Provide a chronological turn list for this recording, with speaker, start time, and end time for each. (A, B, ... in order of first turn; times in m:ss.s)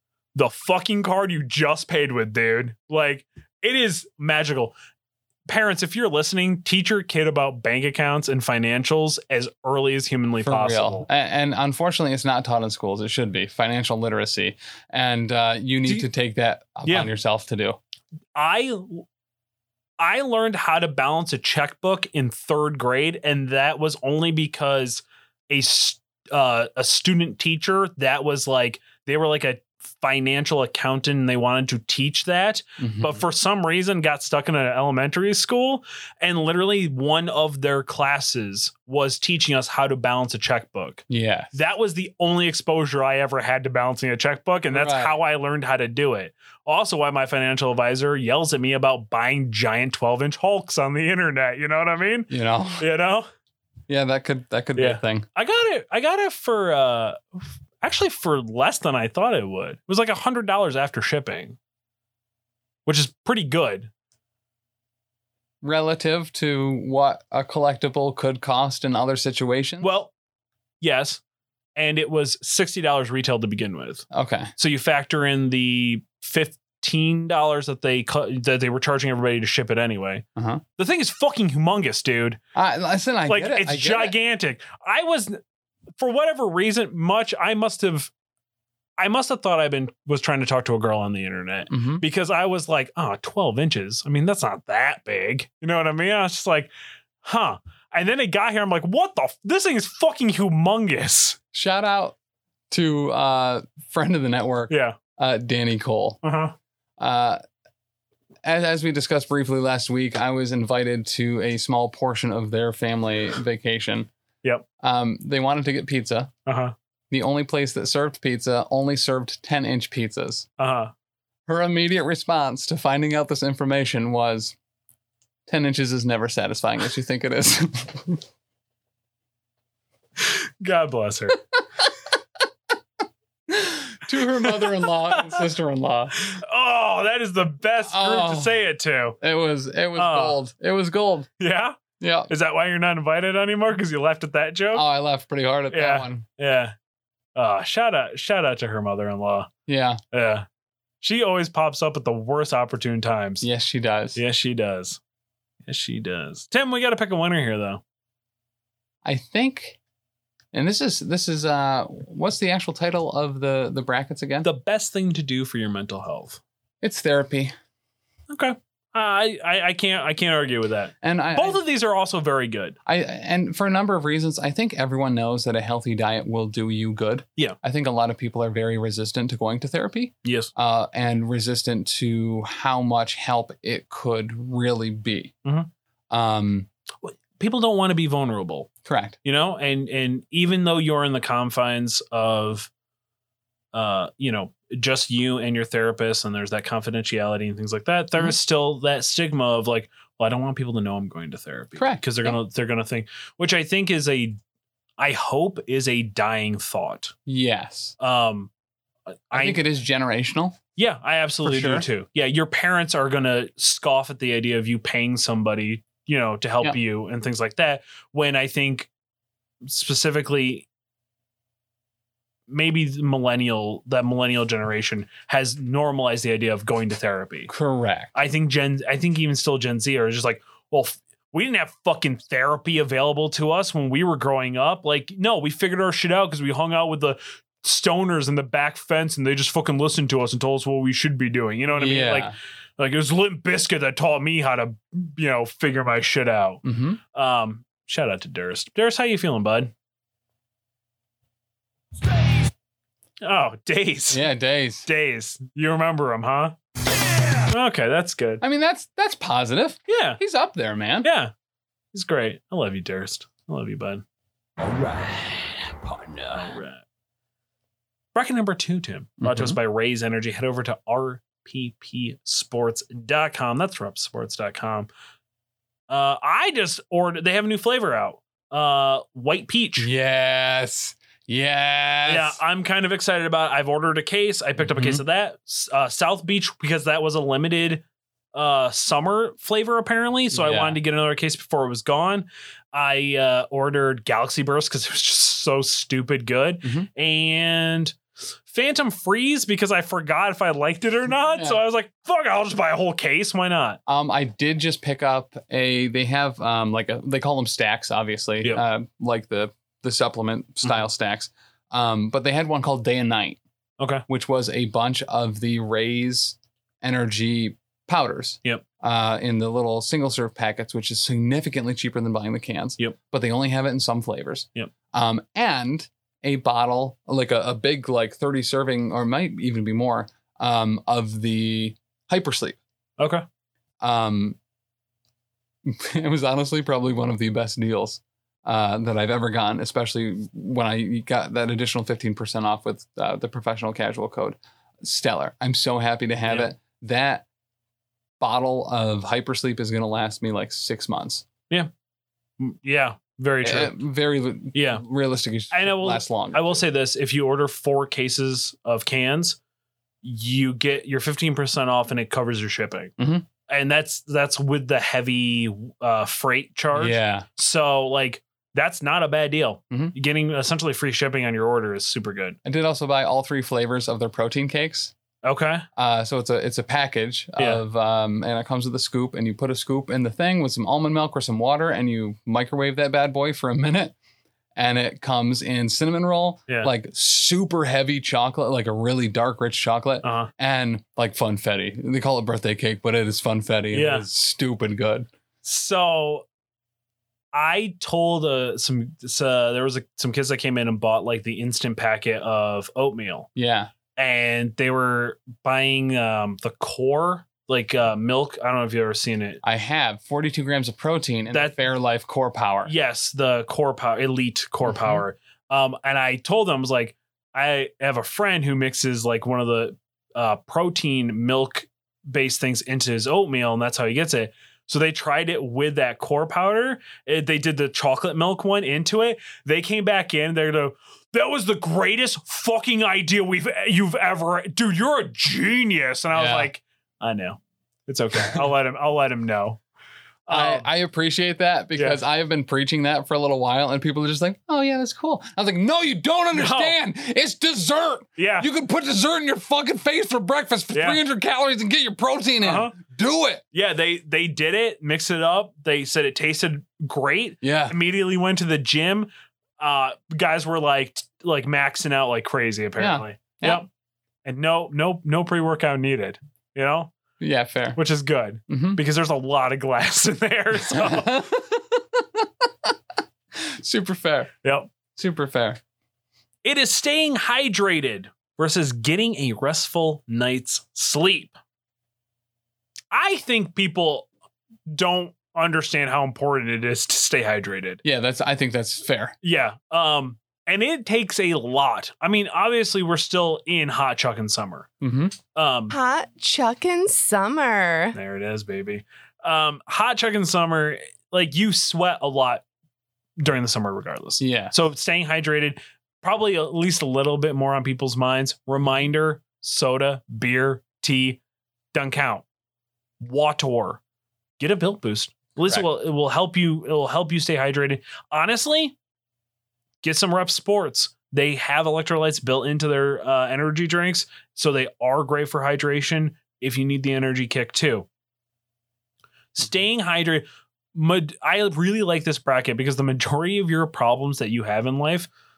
0:00.4-0:04.7 A
0:05.5-0:11.1 A
0:10.4-0:17.8 B
0:18.4-0:19.0 A
0:20.0-0:53.3 A
0:32.8-0:33.2 B
0:41.1-0:41.5 B
0:44.7-0:45.2 B
0:52.3-0:52.8 B
0:53.9-0:55.3 B
0:54.8-0:57.2 A
0:57.8-1:01.6 A
1:02.9-1:03.9 A
1:05.6-1:09.9 B
1:09.8-1:10.1 A
1:10.8-1:11.2 A
1:11.8-1:14.1 A
1:14.1-1:14.5 B
1:14.6-1:20.2 A
1:20.4-1:20.6 B
1:20.8-1:22.4 A
1:22.6-1:24.1 B
1:23.3-1:25.4 A
1:26.0-1:28.1 A
1:29.0-1:36.7 A
1:31.7-1:32.0 B
1:37.2-1:41.4 A
1:41.5-1:42.2 B
1:42.7-1:46.2 B
1:44.7-1:45.0 A
1:46.2-1:46.6 A
1:47.0-1:47.4 B
1:48.4-1:54.1 B
1:54.8-1:56.3 B
1:56.5-1:56.7 A
1:57.1-2:00.5 B
2:00.6-2:00.9 A
2:01.5-2:04.6 B
2:05.5-2:08.2 B
2:10.2-2:11.4 A
2:13.5-2:16.3 B
2:14.4-2:15.4 A
2:16.2-2:19.2 A
2:17.9-2:18.5 B
2:19.2-2:21.3 B
2:20.0-2:20.4 A
2:21.4-2:24.8 A
2:22.0-2:22.3 B
2:24.7-2:26.2 B
2:25.7-2:26.7 A
2:27.4-2:29.5 A
2:29.7-2:30.0 B
2:30.1-2:30.4 A
2:31.0-2:33.5 A
2:33.4-2:34.2 B
2:34.2-2:35.0 A
2:35.7-2:37.8 A
2:39.0-2:39.8 B
2:40.5-2:44.5 B
2:44.4-2:46.4 A
2:46.8-2:47.5 B
2:48.3-2:52.8 A
2:51.0-2:51.6 B
2:52.9-3:05.3 B
3:00.2-3:00.5 A
3:06.1-3:06.7 B
3:07.0-3:08.7 A
3:08.8-3:09.2 B
3:09.2-3:12.7 A
3:13.7-3:24.4 A
3:21.8-3:22.4 B
3:25.0-3:27.1 A
3:27.3-3:28.0 B
3:28.0-3:28.5 A
3:29.3-3:29.6 A
3:29.3-3:30.6 B
3:30.8-3:38.9 A
3:31.4-3:31.8 B
3:39.6-3:40.7 A
3:42.5-3:47.5 A
3:47.5-3:48.1 B
3:48.2-4:06.6 A
4:01.7-4:02.4 B
4:06.6-4:07.0 B
4:07.2-4:09.7 A
4:13.2-4:14.2 A
4:14.1-4:14.8 B
4:14.8-4:16.6 A
4:17.5-4:18.4 A
4:18.4-4:21.1 B
4:19.9-4:20.2 A
4:21.0-4:21.3 A
4:21.9-4:24.0 A
4:24.8-4:26.8 A
4:28.1-4:34.9 A
4:29.2-4:29.6 B
4:35.9-4:39.9 A
4:39.8-4:42.4 B
4:42.1-4:47.8 A
4:44.6-4:45.0 B
4:48.3-4:58.0 A
4:50.3-4:50.8 B
4:58.5-5:03.8 A
5:01.3-5:01.6 B
5:03.9-5:13.4 B
5:14.1-5:32.6 B
5:33.0-5:33.2 A
5:33.8-5:34.4 B
5:35.6-5:47.2 B
5:48.2-5:51.2 B
5:52.4-5:53.7 A
5:53.4-5:56.6 B
5:54.5-5:54.8 A
5:55.5-5:59.4 A
6:00.0-6:02.9 A
6:03.0-6:03.2 B
6:03.5-6:12.4 A
6:06.7-6:07.3 B
6:12.4-6:14.9 B
6:15.2-6:15.6 A
6:15.8-6:24.0 B
6:24.6-6:35.1 B
6:30.0-6:30.3 A
6:33.7-6:34.1 A
6:35.4-6:36.2 A
6:37.3-6:43.3 A
6:43.4-6:43.7 B
6:44.0-6:49.4 A
6:49.4-6:52.7 B
6:52.7-7:19.6 A
6:54.7-6:55.0 B
7:16.1-7:16.5 B
7:20.3-7:20.7 A
7:20.3-7:33.4 B
7:21.8-7:22.0 A
7:26.3-7:26.8 A
7:28.2-7:28.5 A
7:30.7-7:31.0 A
7:32.4-7:32.8 A
7:33.5-7:39.1 A
7:37.4-7:37.8 B
7:39.6-7:43.7 A
7:42.8-7:43.6 B
7:44.2-7:46.9 A
7:47.2-7:47.8 B
7:47.8-7:51.2 A
7:48.5-7:48.8 B
7:50.6-7:52.7 B
7:53.4-7:54.3 B
7:54.4-7:54.7 A
7:55.0-7:55.6 B
7:56.4-8:01.3 A
8:02.9-8:04.1 A
8:04.7-8:07.8 A
8:07.8-8:09.1 B
8:09.2-8:14.7 A
8:14.8-8:15.2 B
8:15.3-8:15.7 A
8:15.7-8:18.0 C
8:17.9-8:22.4 A
8:23.2-8:31.2 A
8:24.2-8:24.5 B
8:31.7-8:32.2 A
8:33.0-8:33.8 A
8:34.4-8:38.8 A
8:39.8-8:47.9 A
8:49.3-8:55.1 A